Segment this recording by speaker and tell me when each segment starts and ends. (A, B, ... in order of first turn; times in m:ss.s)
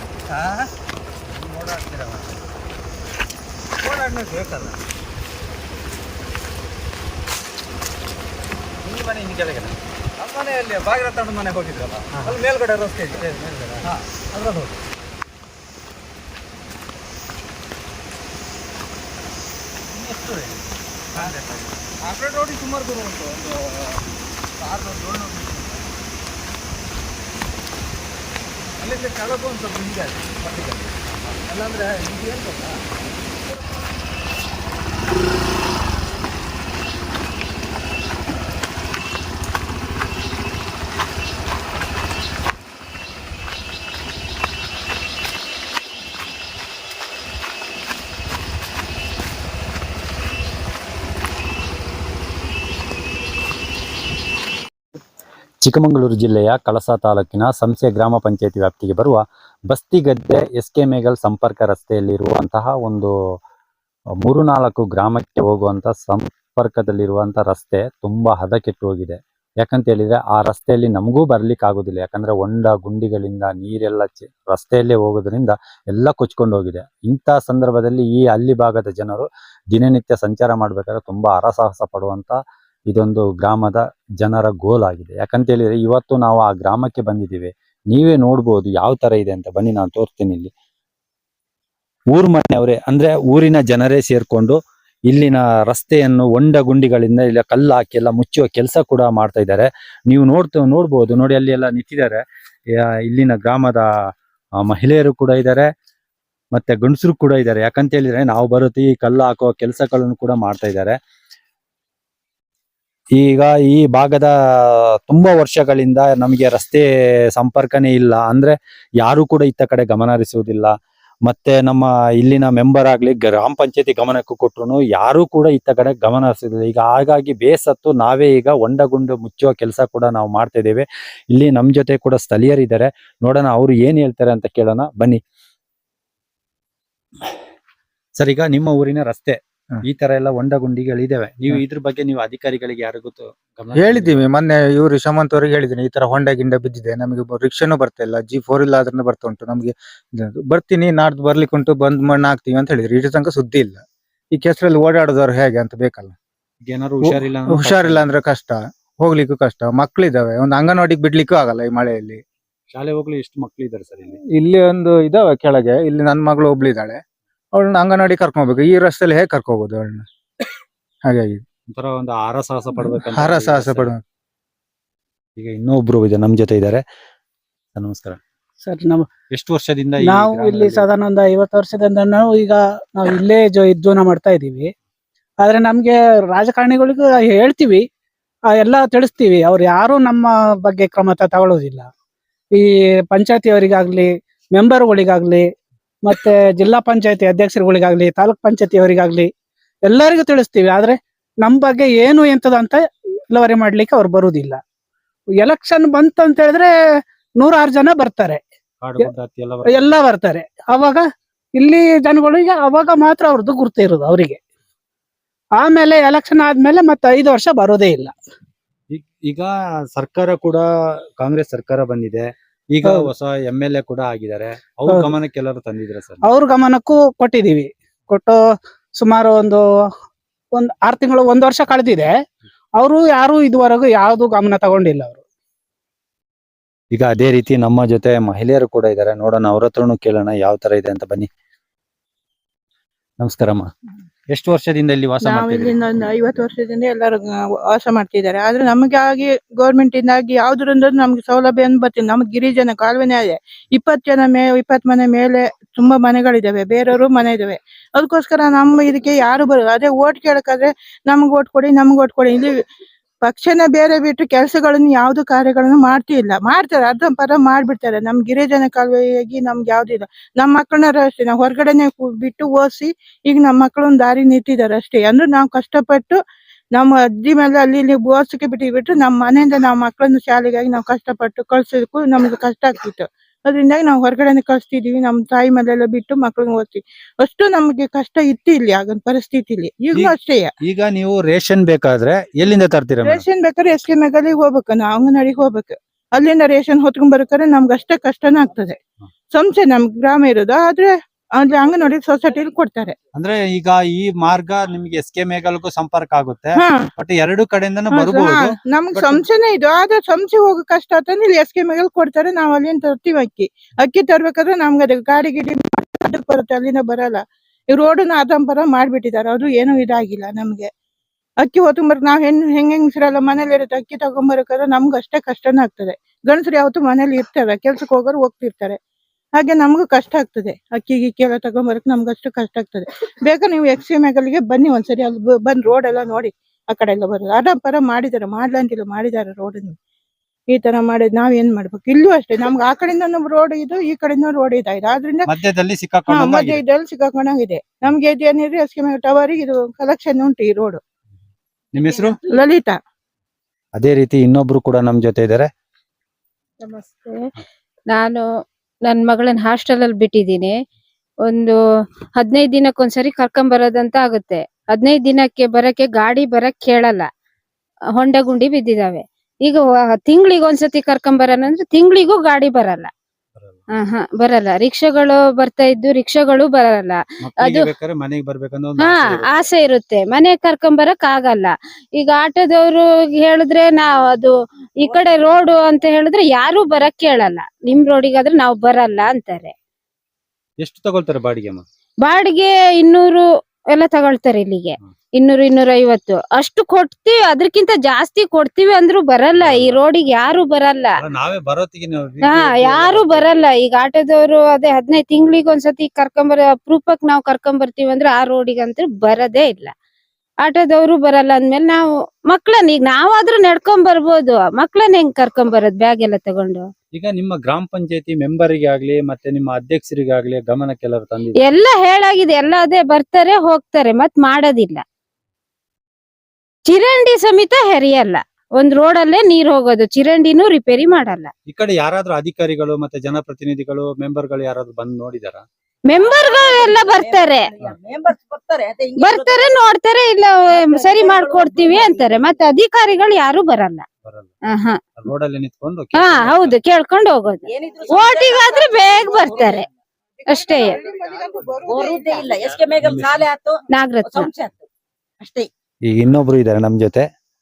0:01.3-0:02.3 A
0:03.8-0:04.8 B
0:08.9-0:09.4 A
0:09.1-0:09.6 B
0:10.2-0:13.3 B
0:13.4-0:13.8 A
0:13.8-0:14.7 B
0:20.0-0:20.4 B
0:21.2-0:21.4 B
0:22.0-0:24.0 B
0:24.6-0:25.8 B
0:28.8-0:32.8 B
0:55.6-1:03.1 A
1:04.2-1:22.4 A
1:22.9-1:30.5 A
1:32.1-1:34.6 A
1:35.1-1:42.2 A
1:43.1-1:43.8 A
1:44.6-1:45.6 A
1:46.5-1:51.0 A
1:53.2-1:54.3 A
1:55.1-1:56.8 A
1:57.4-2:00.7 A
2:01.3-2:15.2 A
2:18.2-2:24.3 A
2:23.8-2:36.1 C
2:36.7-2:38.1 A
2:37.0-2:42.2 C
2:42.7-2:44.2 A
2:44.3-2:47.0 C
2:47.5-2:50.1 C
2:51.0-2:51.4 C
2:51.7-2:54.0 A
2:53.1-2:54.0 C
2:55.4-2:56.8 A
2:57.8-2:58.2 A
2:58.6-2:59.1 D
2:59.3-3:00.9 A
3:00.0-3:04.7 D
3:05.4-3:07.8 D
3:08.5-3:11.9 D
3:12.6-3:15.5 D
3:16.0-3:19.3 D
3:19.8-3:24.6 D
3:25.4-3:26.7 D
3:27.4-3:28.4 D
3:28.8-3:29.9 A
3:29.6-3:31.0 D
3:31.6-3:34.4 D
3:35.6-3:38.1 D
3:38.9-3:40.7 A
3:41.2-3:46.2 A
3:42.8-3:43.1 D
3:44.9-3:45.1 D
3:46.2-3:48.4 D
3:49.0-3:49.6 D
3:50.6-3:52.1 D
3:52.8-3:55.2 D
3:56.9-4:01.3 A
4:03.2-4:03.7 A
4:04.3-4:05.7 A
4:05.2-4:22.6 E
4:23.2-4:36.2 E
4:36.7-4:50.5 E
4:49.9-4:53.2 A
4:53.0-4:58.8 E
4:59.3-5:03.0 E
5:03.2-5:09.2 A
5:06.6-5:06.9 E
5:07.9-5:20.7 E
5:21.4-5:28.8 E
5:29.3-5:39.8 E
5:40.5-5:45.3 E
5:45.3-5:46.6 A
5:46.1-5:50.8 E
5:51.7-5:52.2 A
5:51.8-5:52.4 F
5:52.0-5:52.8 E
5:53.8-5:55.5 A
5:56.6-5:57.3 G
5:57.9-5:58.3 G
5:58.9-6:00.6 G
6:01.3-6:01.6 G
6:02.2-6:07.1 G
6:08.0-6:12.9 G
6:13.7-6:17.7 G
6:17.2-6:19.4 A
6:18.8-6:29.5 G
6:30.6-6:31.6 A
6:32.0-6:40.9 G
6:39.4-6:39.8 A
6:41.0-6:43.4 A
6:42.2-6:49.7 G
6:50.4-6:56.7 G
6:56.9-7:01.4 A
7:01.4-7:04.8 G
7:06.7-7:11.3 G
7:11.5-7:15.4 A
7:15.9-7:17.5 G
7:15.9-7:19.6 F
7:19.0-7:23.8 G
7:20.5-7:22.2 F
7:24.0-7:24.3 A
7:24.5-7:24.8 G
7:25.0-7:26.6 A
7:26.0-7:29.6 G
7:27.5-7:29.6 F
7:30.2-7:32.2 E
7:30.3-7:30.8 G
7:31.6-7:34.7 F
7:32.8-7:33.2 A
7:33.7-7:34.3 G
7:35.2-7:35.5 F
7:35.9-7:37.0 A